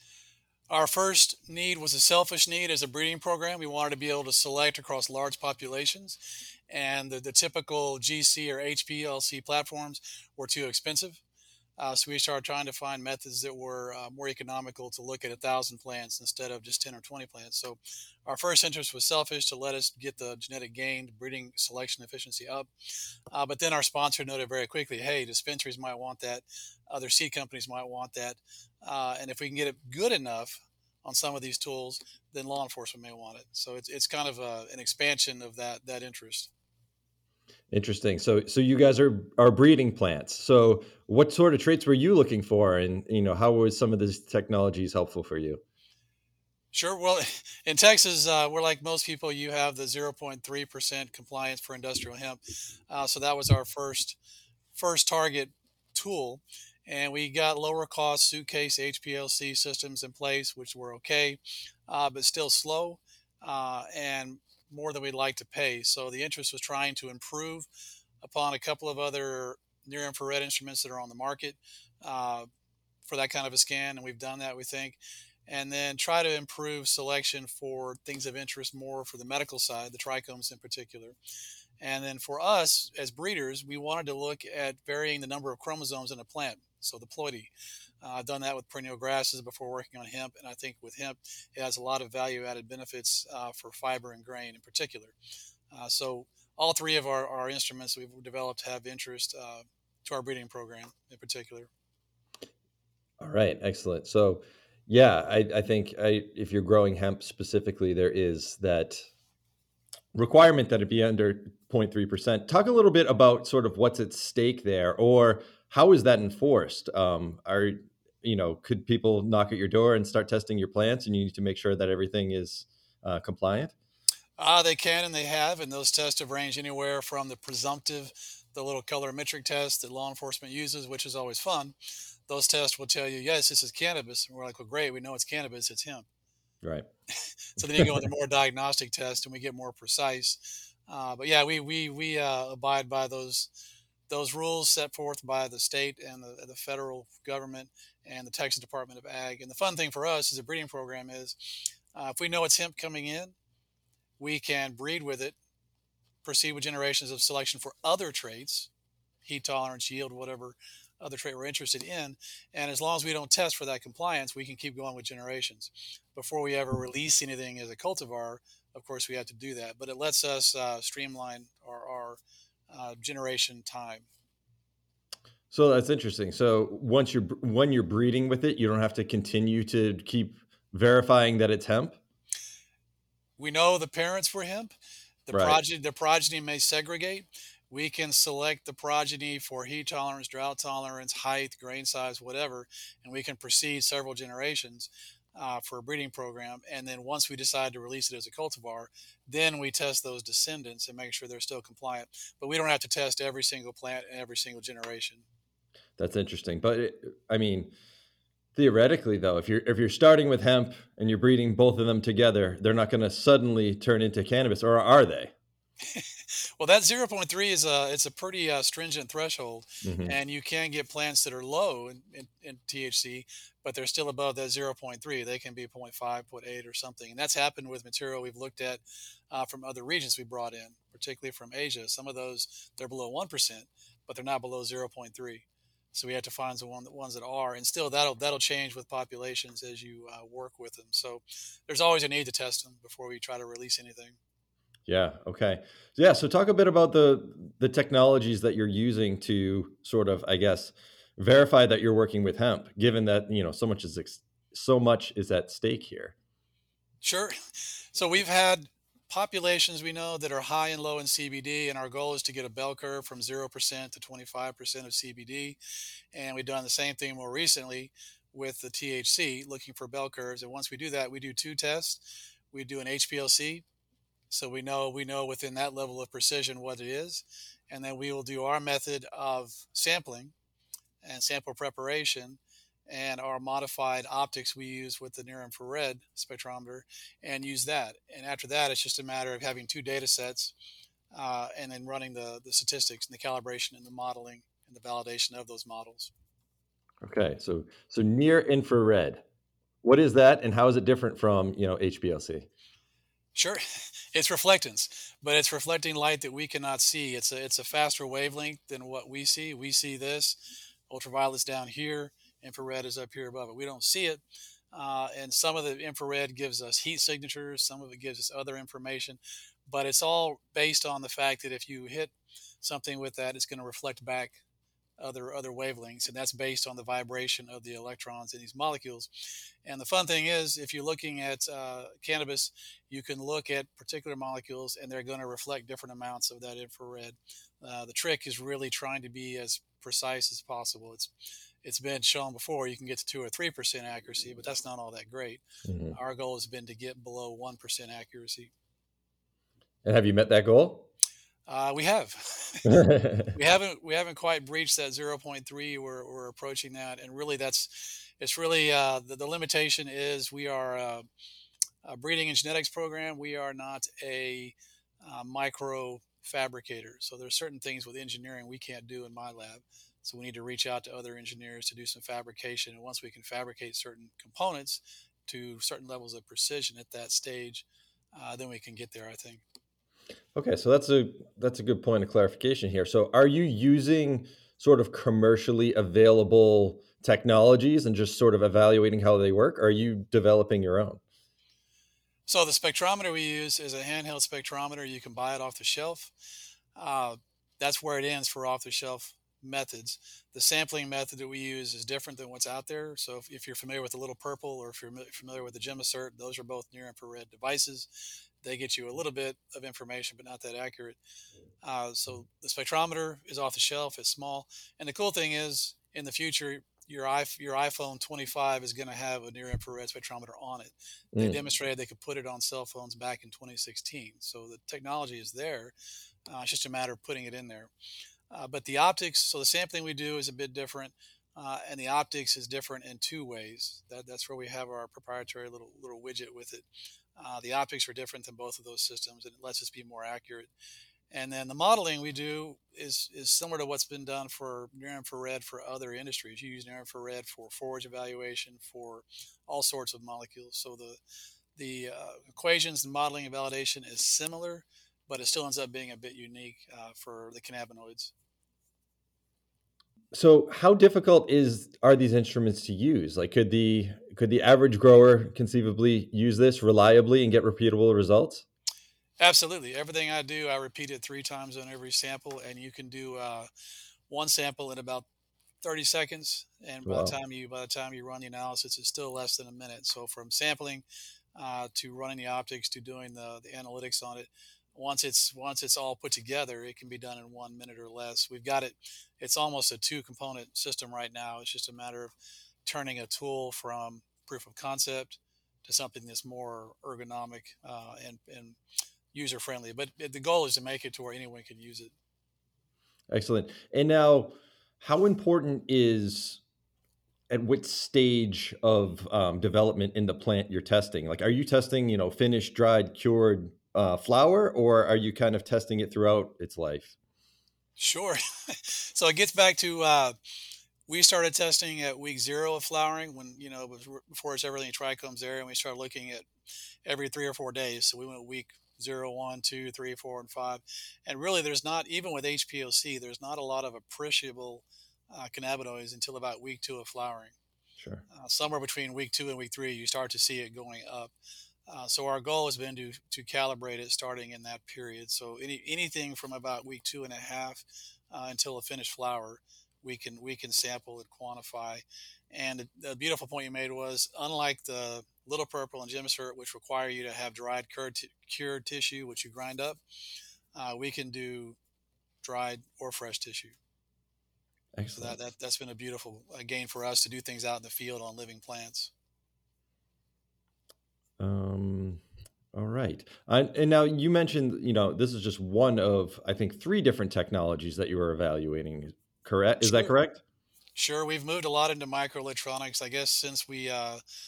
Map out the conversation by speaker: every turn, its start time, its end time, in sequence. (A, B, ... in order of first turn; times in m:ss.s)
0:00.7-0:06.2 A
0:06.7-0:11.2 A
0:11.8-0:22.7 A
0:23.3-0:36.5 A
0:37.7-0:45.6 B
0:46.7-0:54.2 A
0:54.7-1:07.7 A
1:08.2-1:12.5 A
1:13.0-1:21.2 A
1:21.8-1:27.5 A
1:28.0-1:35.1 A
1:35.7-1:41.7 A
1:43.2-1:49.0 B
1:50.1-2:03.7 B
2:04.4-2:11.7 A
2:12.3-2:16.0 A
2:16.6-2:16.9 B
2:17.6-2:23.5 A
2:17.6-2:17.9 B
2:24.1-2:33.3 A
2:34.2-2:35.3 A
2:36.2-2:38.7 A
2:39.2-2:54.1 A
2:55.5-3:02.0 B
3:03.4-3:04.8 A
3:05.3-3:25.2 A
3:05.3-3:05.6 B
3:26.0-3:27.7 B
3:28.6-3:35.3 B
3:35.9-4:04.2 A
3:39.8-3:40.1 B
4:04.9-4:16.1 B
4:17.0-4:17.3 A
4:17.9-4:25.6 A
4:26.1-4:33.6 A
4:34.3-4:40.3 A
4:41.0-4:50.5 A
4:51.1-4:56.1 A
4:57.0-4:59.2 B
4:59.8-5:02.5 B
5:03.3-5:03.6 A
5:04.1-5:10.4 A
5:10.9-5:24.4 A
5:25.0-5:29.1 A
5:29.6-5:41.1 A
5:41.6-5:48.5 A
5:45.6-5:46.0 B
5:49.8-5:50.9 B
5:51.5-6:01.0 A
5:52.6-5:53.3 B
6:01.8-6:19.4 A
6:20.3-6:31.0 B
6:32.2-6:36.1 A
6:36.8-6:47.9 A
6:48.4-6:51.0 A
6:51.6-7:05.7 A
7:06.3-7:07.7 A
7:08.3-7:16.6 A
7:17.2-7:20.5 A
7:21.1-7:31.0 A
7:31.6-7:38.1 A
7:40.1-7:48.4 B
7:49.2-7:53.5 A
7:54.1-7:55.0 A
7:55.6-8:12.1 A
7:56.8-7:57.2 B
8:12.6-8:18.6 A
8:19.1-8:21.9 A
8:23.1-8:26.4 B
8:27.3-8:36.9 B
8:37.8-8:40.1 A
8:40.9-8:46.3 A
8:46.8-8:57.3 A
8:58.1-9:01.1 A
9:01.7-9:19.8 A
9:20.5-9:21.6 A
9:22.2-9:23.6 A
9:24.7-9:25.2 B
9:24.9-9:28.9 A
9:31.2-9:32.0 B
9:32.5-9:40.2 B
9:39.6-9:39.9 A
9:40.7-9:44.0 A